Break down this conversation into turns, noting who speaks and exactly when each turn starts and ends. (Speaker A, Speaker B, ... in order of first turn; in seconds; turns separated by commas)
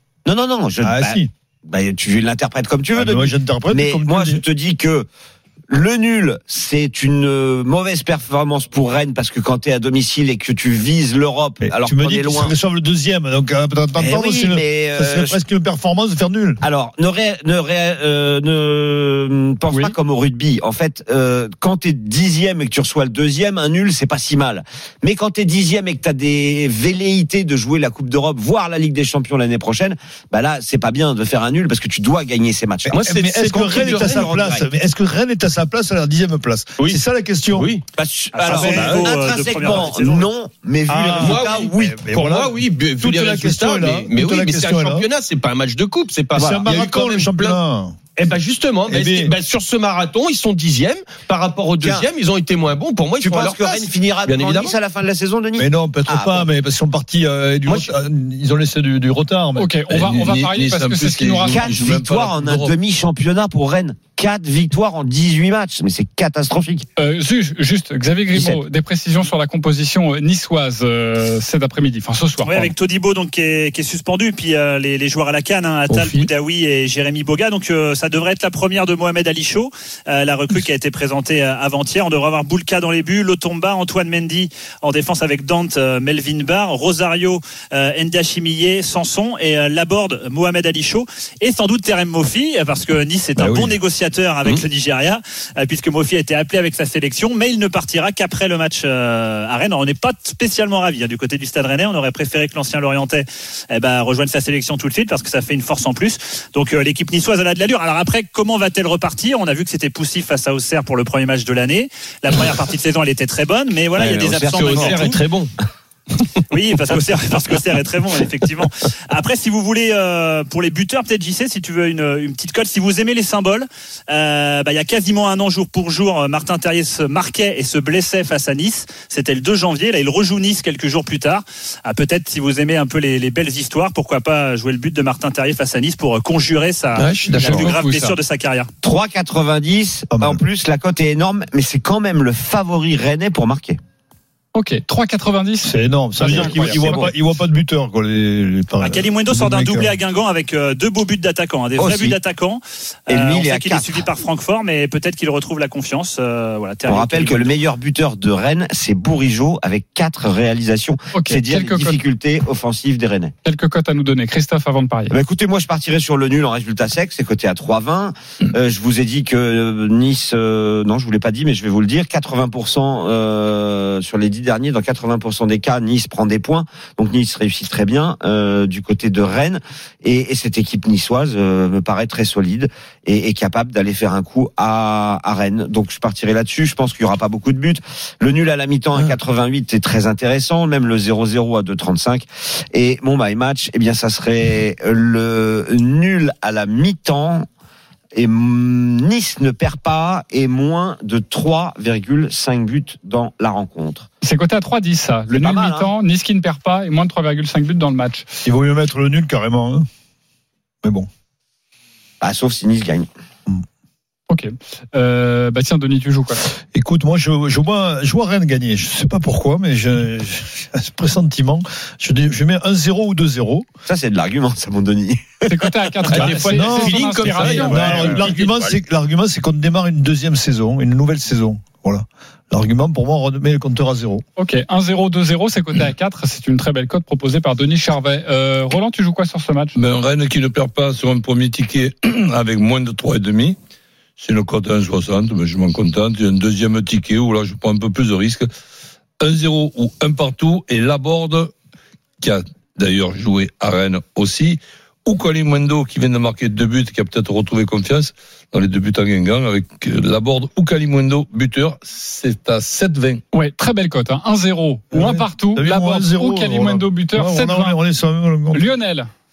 Speaker A: 0.2-5.1, Speaker B: 0.8-1.3, Speaker B: 2.9-4.4, Speaker A: 5.7-12.5, Speaker B: 11.6-16.6, Speaker A: 14.0-15.4, Speaker A: 16.6-34.6, Speaker B: 32.9-37.7, Speaker C: 32.9-34.4, Speaker C: 37.5-37.8, Speaker A: 38.0-42.1, Speaker D: 38.3-40.3, Speaker B: 38.5-39.1, Speaker C: 38.6-39.0, Speaker B: 40.9-45.1, Speaker C: 41.2-47.6, Speaker B: 46.4-48.1, Speaker A: 46.4-46.7, Speaker C: 48.2-54.8, Speaker B: 48.9-49.3, Speaker A: 51.8-52.1, Speaker A: 53.2-56.5, Speaker B: 55.6-59.7, Speaker C: 57.7-57.9, Speaker E: 59.6-61.8, Speaker F: 59.9-62.7, Speaker A: 61.5-66.9, Speaker E: 67.0-72.7, Speaker D: 72.4-115.2, Speaker F: 75.9-76.3, Speaker B: 93.4-93.8, Speaker A: 114.0-115.2, Speaker C: 114.4-115.5, Speaker D: 116.5-138.7, Speaker C: 137.0-137.7, Speaker E: 137.3-138.2, Speaker A: 138.8-143.8, Speaker B: 140.1-140.4, Speaker E: 144.6-147.1, Speaker B: 145.6-149.9, Speaker D: 148.8-157.6, Speaker A: 151.8-152.2, Speaker A: 153.1-154.1, Speaker A: 156.9-163.3, Speaker E: 161.1-162.0, Speaker E: 163.4-165.2, Speaker A: 165.1-197.5, Speaker A: 198.1-204.1, Speaker E: 204.2-208.3, Speaker A: 205.3-205.9, Speaker B: 208.4-209.9, Speaker B: 210.8-211.1, Speaker A: 212.2-213.1, Speaker E: 214.3-216.4, Speaker B: 216.7-223.7, Speaker A: 223.9-225.5, Speaker E: 225.5-228.2, Speaker C: 226.1-228.8, Speaker B: 226.5-234.2, Speaker E: 234.4-239.8, Speaker F: 239.8-243.6, Speaker F: 244.2-248.5, Speaker F: 249.2-251.5, Speaker F: 252.2-263.2, Speaker E: 263.3-267.8, Speaker B: 264.9-268.6, Speaker E: 268.5-269.1